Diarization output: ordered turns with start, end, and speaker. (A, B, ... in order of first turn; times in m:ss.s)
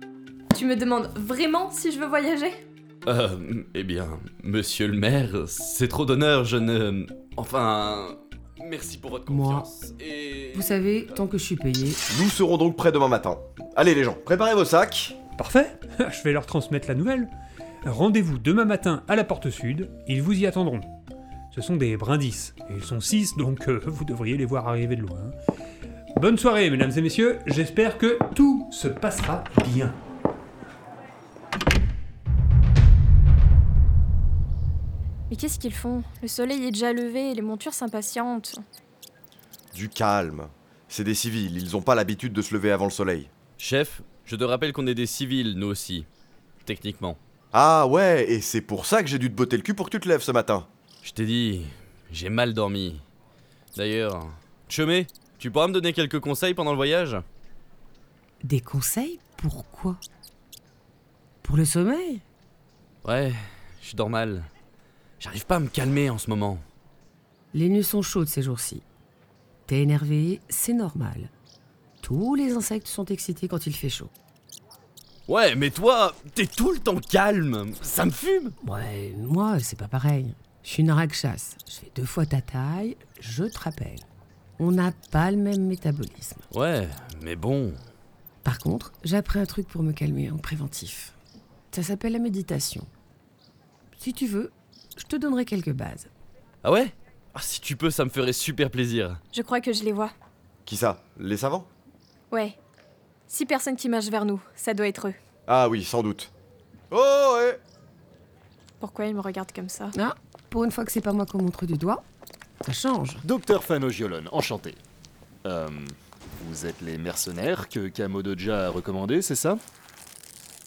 0:00.5-0:02.6 A
0:03.1-0:11.2 B
0:09.3-0:09.7 C
0:10.5-0:12.0 C
0:12.1-0:15.2 D
0:15.4-0:17.3 E
0:17.8-0:20.9 E
0:21.5-0:25.4 E
0:26.2-0:30.0 E
0:35.3-0:38.6 A
0:39.7-0:43.3 D
0:43.6-0:46.1 B
0:46.6-0:47.2 B
0:47.5-0:50.7 D
0:51.0-0:53.0 B
0:53.8-0:57.2 B
0:58.4-1:00.0 C
1:01.4-1:02.2 C
1:03.0-1:04.5 B
1:05.2-1:06.6 B
1:07.5-1:08.8 C
1:09.7-1:11.3 C
1:12.0-1:14.1 C
1:15.3-1:18.6 B
1:18.6-1:24.1 C
1:24.6-1:26.5 C
1:26.5-1:27.8 B
1:28.4-1:31.1 C
1:31.7-1:32.9 C
1:34.0-1:36.1 C
1:36.6-1:39.2 B
1:39.3-1:40.1 A
1:40.7-1:41.7 D
1:42.3-1:42.6 A
1:43.3-1:45.2 A
1:45.5-1:46.3 D
1:46.9-1:47.6 D
1:48.8-1:49.9 A
1:49.9-1:52.0 C
1:52.6-1:53.2 C
1:53.2-1:54.8 F
1:55.5-1:59.6 F